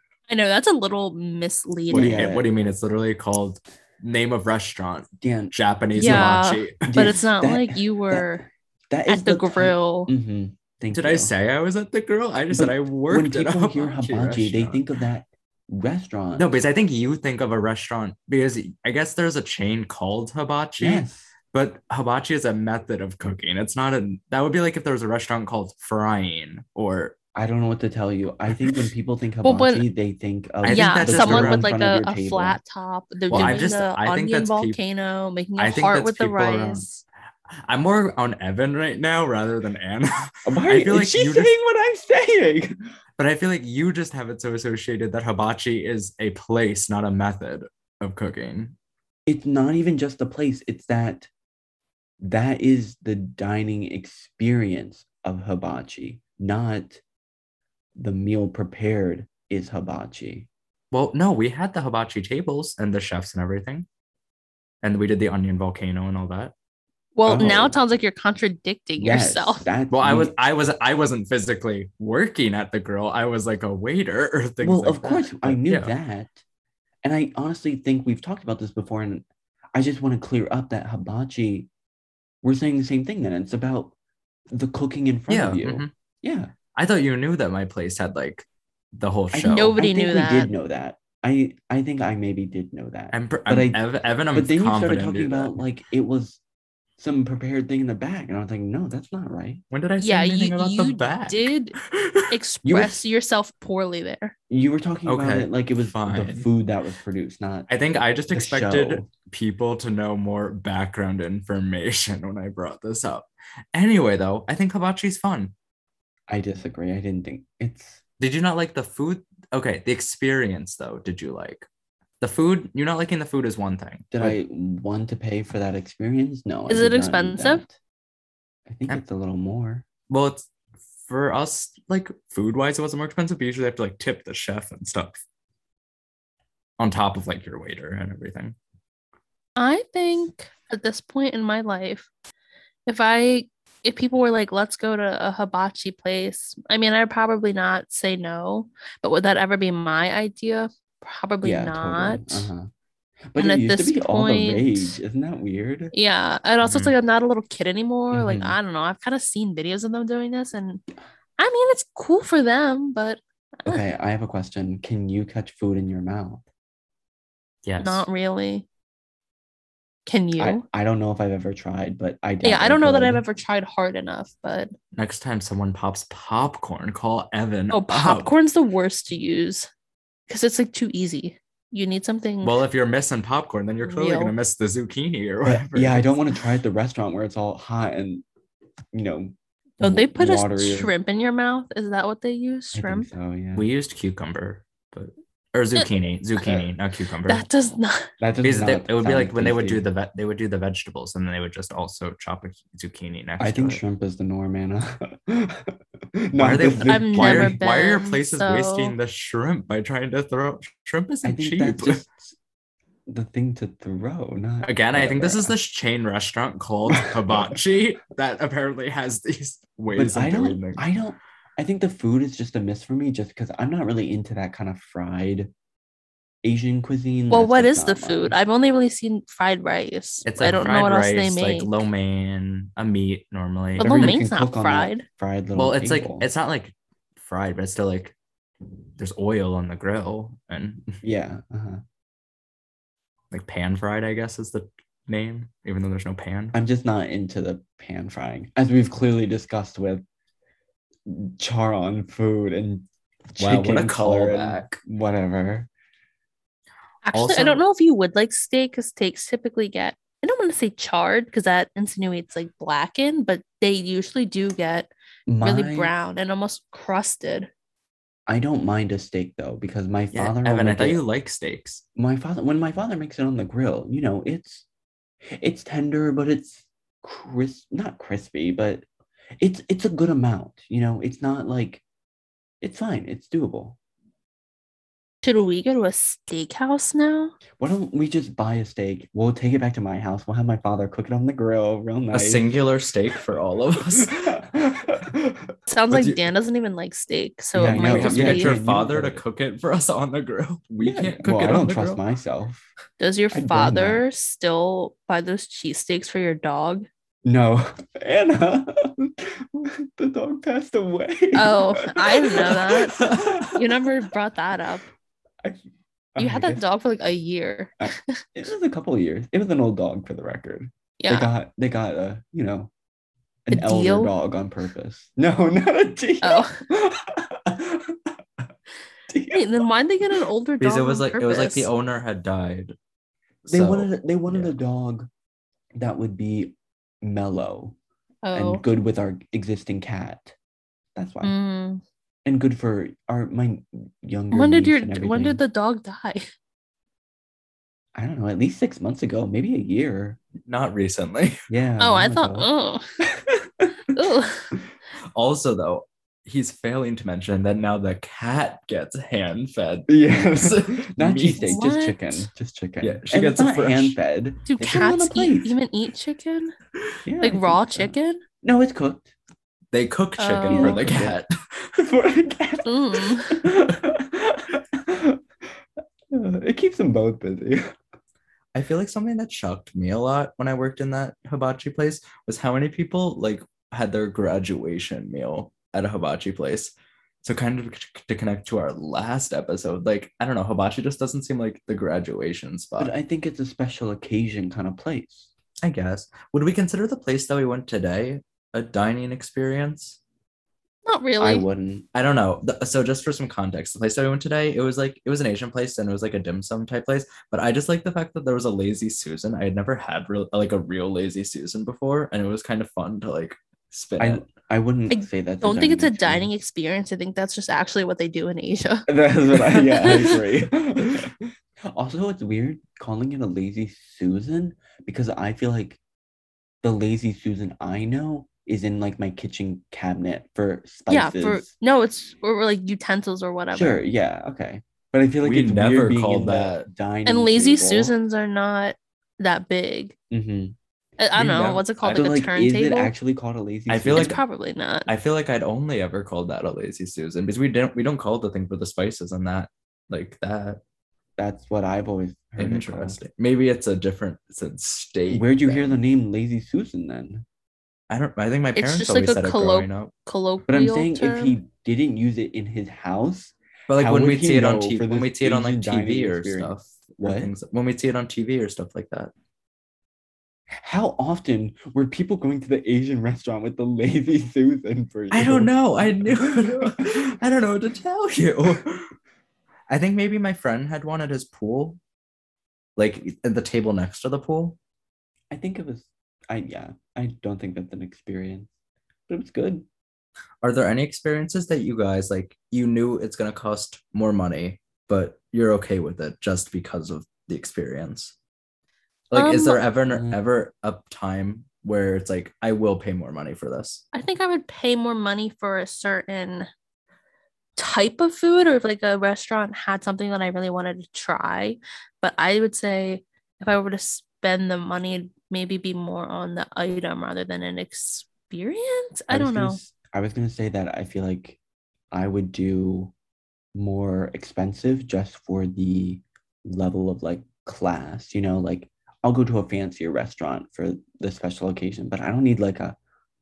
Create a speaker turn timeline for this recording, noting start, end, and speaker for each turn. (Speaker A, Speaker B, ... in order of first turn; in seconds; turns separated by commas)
Speaker A: 0.3-2.2, Speaker B: 1.9-2.5, Speaker C: 1.9-7.1, Speaker B: 5.2-6.2, Speaker A: 6.0-8.4, Speaker B: 6.8-11.3, Speaker A: 9.1-10.1, Speaker C: 10.9-14.8, Speaker B: 12.5-16.6, Speaker C: 16.4-27.1, Speaker B: 20.8-21.3, Speaker B: 27.3-32.6, Speaker A: 29.4-29.9, Speaker C: 30.6-31.6, Speaker A: 30.6-37.0, Speaker C: 33.3-34.8, Speaker B: 33.3-33.7, Speaker C: 35.6-36.9, Speaker C: 37.5-41.5, Speaker B: 40.5-42.8, Speaker C: 43.2-48.7, Speaker B: 49.3-51.3, Speaker B: 52.2-57.0, Speaker B: 58.0-60.5, Speaker C: 60.9-63.9, Speaker C: 64.8-66.5, Speaker A: 67.2-69.7, Speaker B: 67.2-67.8, Speaker B: 69.0-70.3, Speaker C: 69.9-75.9, Speaker B: 74.6-76.4, Speaker B: 77.0-81.7, Speaker B: 82.4-83.9, Speaker B: 84.5-86.5, Speaker C: 85.3-85.9, Speaker C: 86.7-89.8, Speaker B: 89.3-96.4, Speaker A: 89.5-90.5, Speaker C: 93.1-95.6, Speaker B: 97.0-99.6, Speaker C: 99.7-102.3, Speaker A: 100.0-101.8, Speaker A: 102.3-104.3, Speaker B: 102.6-103.0, Speaker B: 104.5-107.7, Speaker C: 105.0-106.5, Speaker C: 107.7-115.5, Speaker B: 108.3-109.1, Speaker B: 116.3-118.0, Speaker C: 118.2-121.7, Speaker C: 122.2-124.4, Speaker B: 124.1-127.8, Speaker A: 126.7-127.6, Speaker B: 128.7-129.8, Speaker C: 130.1-130.5, Speaker C: 131.0-135.2, Speaker C: 136.8-138.6, Speaker A: 139.6-142.1, Speaker A: 142.9-152.5, Speaker B: 151.4-152.7, Speaker B: 153.3-155.9, Speaker A: 153.4-154.9, Speaker A: 155.9-160.8, Speaker C: 156.6-156.9, Speaker B: 158.1-158.6, Speaker A: 161.4-163.8, Speaker B: 163.6-166.4, Speaker C: 167.6-168.1, Speaker A: 167.8-168.7, Speaker A: 170.1-170.6, Speaker B: 170.4-173.2, Speaker A: 172.4-174.7, Speaker C: 174.9-178.3, Speaker A: 177.7-179.7, Speaker A: 180.3-182.6, Speaker C: 182.4-186.1, Speaker A: 183.8-184.3, Speaker B: 185.4-188.2, Speaker B: 188.9-190.9, Speaker A: 189.8-193.1, Speaker B: 192.7-193.7, Speaker C: 193.5-197.4, Speaker A: 197.3-198.1, Speaker B: 198.2-199.8, Speaker C: 198.4-203.8, Speaker B: 203.4-207.6, Speaker C: 206.3-212.0, Speaker A: 206.8-208.9, Speaker B: 211.2-212.3, Speaker B: 213.1-215.5, Speaker C: 214.6-220.8, Speaker B: 216.9-217.5, Speaker B: 219.9-225.5, Speaker B: 226.4-228.4, Speaker A: 227.3-231.8, Speaker C: 230.2-234.0, Speaker A: 233.8-235.1, Speaker B: 233.8-236.3, Speaker C: 235.6-238.1, Speaker C: 239.0-241.0, Speaker B: 241.0-241.8, Speaker C: 243.3-246.6, Speaker B: 246.5-250.0, Speaker B: 251.1-255.7, Speaker C: 253.4-254.8, Speaker A: 257.0-264.9, Speaker C: 257.1-257.6, Speaker B: 265.3-265.9, Speaker A: 265.4-267.5, Speaker B: 268.3-271.0, Speaker C: 270.1-271.8, Speaker B: 271.9-274.6, Speaker B: 275.2-278.8, Speaker B: 279.4-281.8, Speaker B: 282.6-283.8, Speaker A: 285.2-287.4, Speaker B: 287.6-292.5, Speaker C: 292.1-294.4, Speaker B: 293.9-295.5, Speaker A: 295.7-298.5, Speaker C: 295.9-296.2, Speaker B: 297.5-299.2, Speaker C: 297.7-302.0, Speaker B: 300.8-302.7, Speaker A: 303.0-306.9, Speaker B: 303.3-304.0, Speaker B: 307.2-313.6, Speaker A: 311.3-314.8, Speaker C: 312.6-313.5, Speaker B: 315.4-316.6, Speaker A: 316.2-318.2, Speaker B: 317.8-322.7, Speaker A: 321.0-321.3, Speaker B: 323.4-328.0, Speaker A: 323.5-324.1, Speaker A: 326.2-326.6, Speaker B: 329.1-329.6, Speaker A: 329.3-331.7, Speaker C: 330.6-332.8, Speaker C: 333.4-334.6, Speaker B: 333.5-335.1, Speaker B: 335.8-337.8, Speaker A: 338.2-338.6, Speaker B: 338.3-340.3, Speaker B: 340.9-341.3, Speaker A: 341.2-341.8, Speaker B: 342.2-345.4, Speaker A: 344.3-346.3, Speaker B: 347.9-350.2, Speaker C: 350.4-351.4, Speaker B: 351.5-352.5, Speaker A: 351.8-352.8, Speaker B: 353.1-353.7, Speaker A: 353.9-354.5, Speaker C: 355.1-361.6, Speaker B: 359.9-365.6, Speaker A: 361.4-362.3, Speaker C: 362.8-364.0, Speaker A: 364.4-366.5, Speaker B: 367.1-369.1, Speaker A: 367.2-368.2, Speaker C: 369.7-371.7, Speaker A: 370.2-370.8, Speaker B: 370.4-371.2, Speaker B: 371.8-375.2, Speaker A: 372.6-373.4, Speaker B: 376.1-377.6, Speaker C: 378.5-386.7, Speaker C: 387.2-392.9, Speaker B: 392.8-395.3, Speaker C: 395.6-400.0, Speaker A: 400.8-401.4, Speaker B: 401.2-401.9, Speaker C: 401.9-414.2, Speaker B: 414.0-416.3, Speaker A: 414.9-420.2, Speaker B: 418.9-425.8, Speaker B: 426.6-431.5, Speaker A: 430.9-433.8, Speaker B: 433.5-437.9, Speaker C: 435.2-436.7, Speaker A: 437.1-439.9, Speaker B: 440.1-440.6, Speaker A: 441.0-442.9, Speaker C: 441.1-441.6, Speaker B: 441.8-444.2, Speaker C: 443.7-444.2, Speaker A: 443.9-444.9, Speaker C: 444.9-450.6, Speaker B: 451.2-453.0, Speaker C: 452.4-455.8, Speaker B: 455.1-457.2, Speaker C: 457.9-459.9, Speaker A: 458.6-461.4, Speaker B: 460.5-467.3, Speaker C: 463.7-469.1, Speaker B: 470.5-476.9, Speaker C: 475.1-478.9, Speaker C: 479.7-481.8, Speaker C: 482.8-484.6, Speaker B: 485.3-488.5, Speaker B: 489.1-489.6, Speaker C: 490.4-498.1, Speaker C: 499.1-503.8, Speaker A: 499.1-499.6, Speaker B: 499.9-500.2, Speaker A: 503.9-506.5, Speaker A: 507.6-519.6, Speaker B: 519.1-521.4, Speaker B: 521.9-522.9, Speaker B: 523.5-532.8